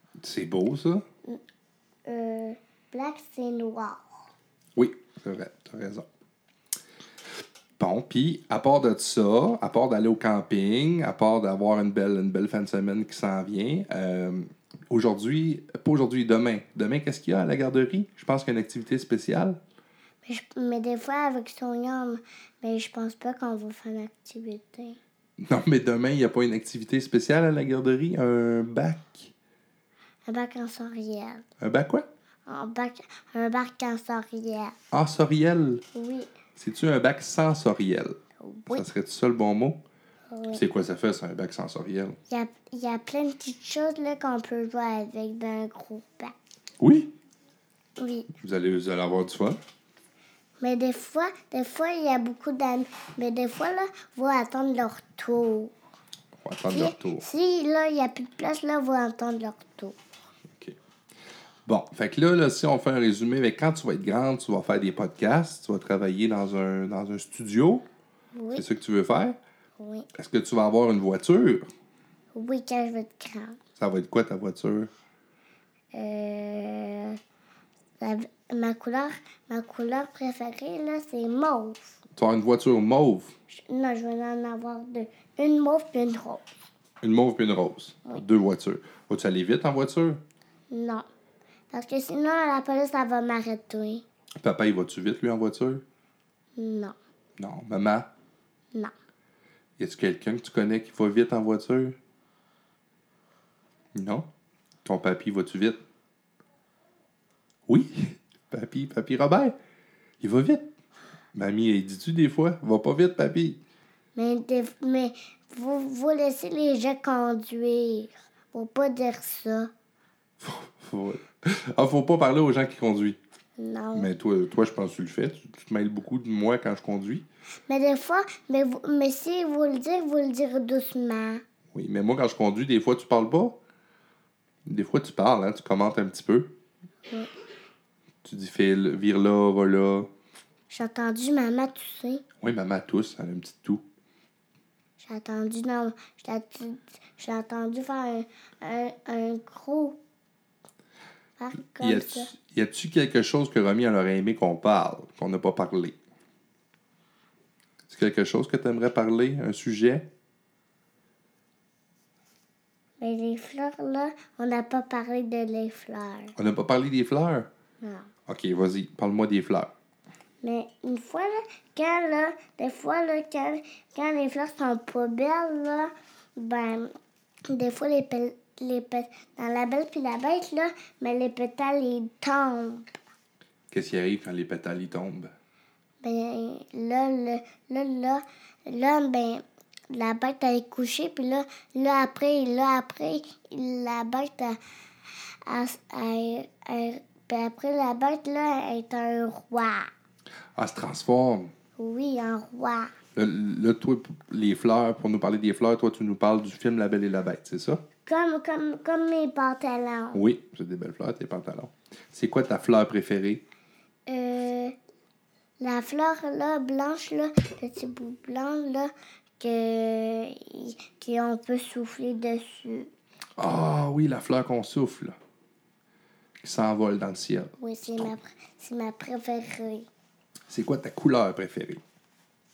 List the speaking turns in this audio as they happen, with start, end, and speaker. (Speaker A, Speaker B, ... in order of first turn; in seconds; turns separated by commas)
Speaker A: 0.2-1.0, Speaker B: 2.0-4.1, Speaker A: 4.8-6.0, Speaker A: 7.8-19.6, Speaker B: 20.2-25.0, Speaker A: 25.4-29.3, Speaker B: 30.3-31.4, Speaker A: 31.6-32.0, Speaker B: 32.5-34.7, Speaker A: 34.9-35.8, Speaker B: 35.9-36.3, Speaker A: 36.5-38.1, Speaker B: 38.4-38.9, Speaker A: 38.7-39.8, Speaker B: 40.3-40.6, Speaker A: 40.5-42.2, Speaker B: 42.3-46.3, Speaker A: 46.8-47.1, Speaker B: 48.0-48.3, Speaker A: 48.4-49.6, Speaker B: 50.6-55.7, Speaker A: 56.4-57.2, Speaker B: 56.7-60.0, Speaker A: 61.6-67.9, Speaker B: 68.3-68.7, Speaker A: 68.5-69.4, Speaker B: 69.8-70.1, Speaker A: 70.1-71.7, Speaker B: 72.3-73.6, Speaker A: 73.8-74.9, Speaker B: 75.9-77.2, Speaker B: 78.0-82.0, Speaker A: 82.2-83.3, Speaker B: 83.5-86.5, Speaker A: 87.0-90.2, Speaker B: 90.7-91.1, Speaker B: 91.7-94.0, Speaker A: 94.4-95.8, Speaker B: 96.6-97.0, Speaker A: 97.4-98.1, Speaker A: 99.8-102.0, Speaker A: 103.9-104.3, Speaker A: 104.8-105.8, Speaker A: 107.7-109.5, Speaker A: 110.2-110.7, Speaker A: 111.3-113.6, Speaker B: 114.2-119.7, Speaker A: 120.4-123.2, Speaker B: 123.6-124.1, Speaker A: 123.9-127.2, Speaker B: 127.7-131.4, Speaker A: 131.7-133.6, Speaker A: 134.7-136.5, Speaker A: 138.2-140.1, Speaker B: 140.7-142.2, Speaker A: 142.4-143.8, Speaker B: 145.0-150.0, Speaker B: 151.4-152.3, Speaker A: 151.8-156.0, Speaker A: 157.9-160.1, Speaker B: 163.0-166.3, Speaker A: 166.4-167.5, Speaker B: 167.8-168.1, Speaker A: 168.3-169.7, Speaker B: 170.4-176.9, Speaker B: 177.5-182.9, Speaker A: 183.7-185.3, Speaker B: 186.0-194.6, Speaker B: 195.5-199.9, Speaker A: 200.6-201.5, Speaker B: 201.8-202.9, Speaker A: 203.1-207.8, Speaker B: 208.1-210.2, Speaker A: 210.1-213.4, Speaker B: 214.1-214.7, Speaker B: 215.6-222.9, Speaker A: 223.4-225.2, Speaker A: 226.4-227.5, Speaker B: 227.6-229.9, Speaker A: 230.5-231.8